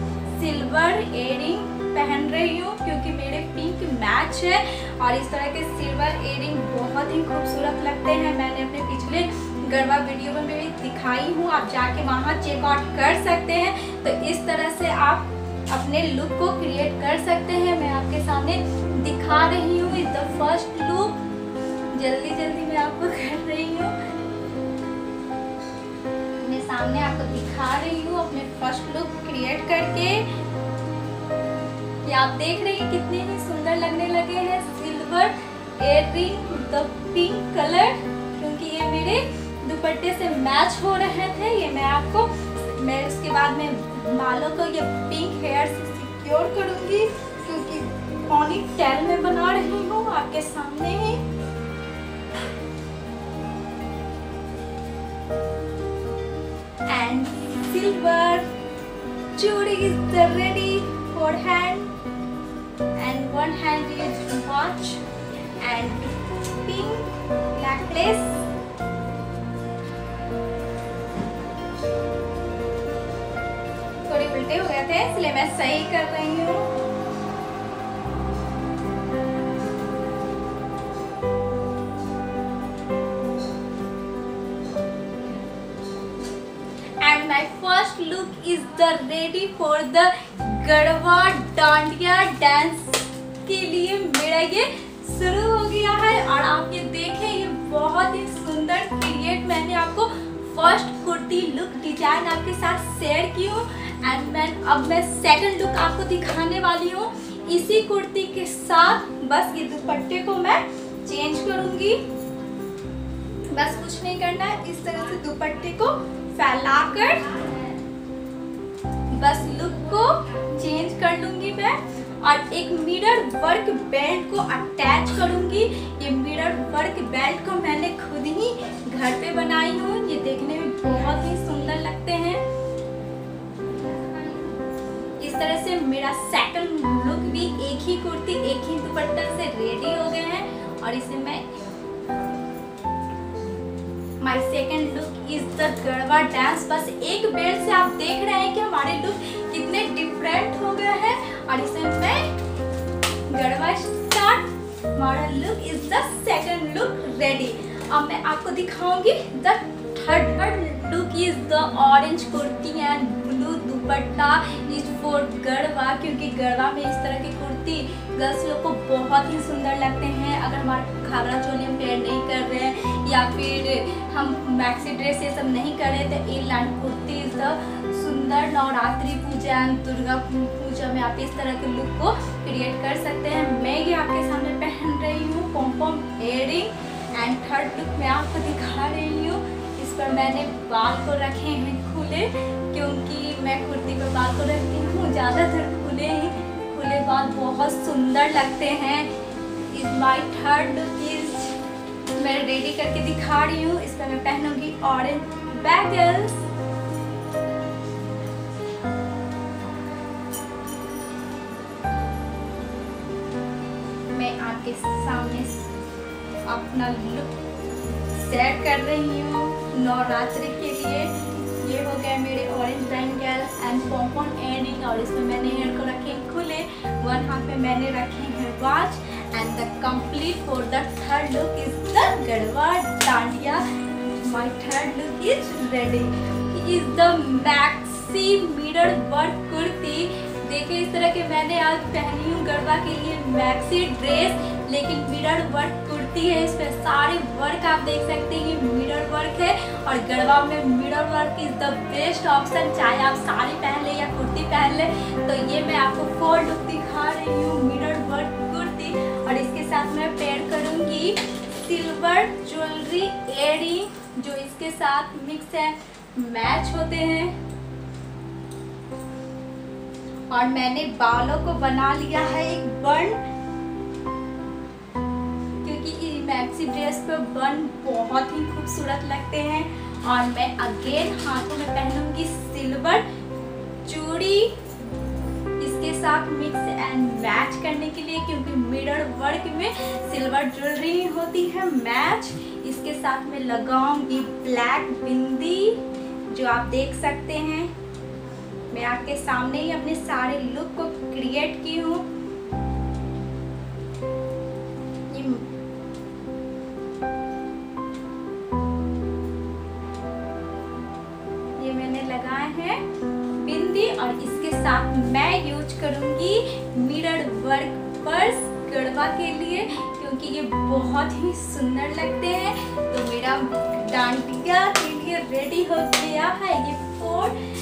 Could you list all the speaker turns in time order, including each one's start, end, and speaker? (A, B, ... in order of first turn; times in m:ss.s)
0:00.3-0:21.2 A
0:21.9-0:24.0 A
0:26.4-0:30.3 A
0:32.1-0:51.2 A
0:56.9-0:58.5 A
0:59.3-1:01.9 A
1:03.0-1:05.0 A
1:05.6-1:08.5 A
1:14.1-1:16.7 A
1:27.0-1:52.0 A
1:53.5-1:57.5 A
1:59.1-2:12.4 A
2:15.2-2:21.5 A
2:24.2-2:32.3 A
2:33.3-3:19.1 A
3:19.7-3:21.6 A
3:22.2-3:26.5 A
3:34.1-3:35.7 A
3:36.5-3:37.4 A
3:38.1-4:27.4 A
4:30.3-4:33.2 A
4:35.6-4:43.0 A
4:43.8-4:44.6 A
4:45.6-4:57.7 A
4:58.7-5:02.1 A
5:05.1-5:05.5 A
5:11.6-5:12.8 A
5:13.4-5:27.4 A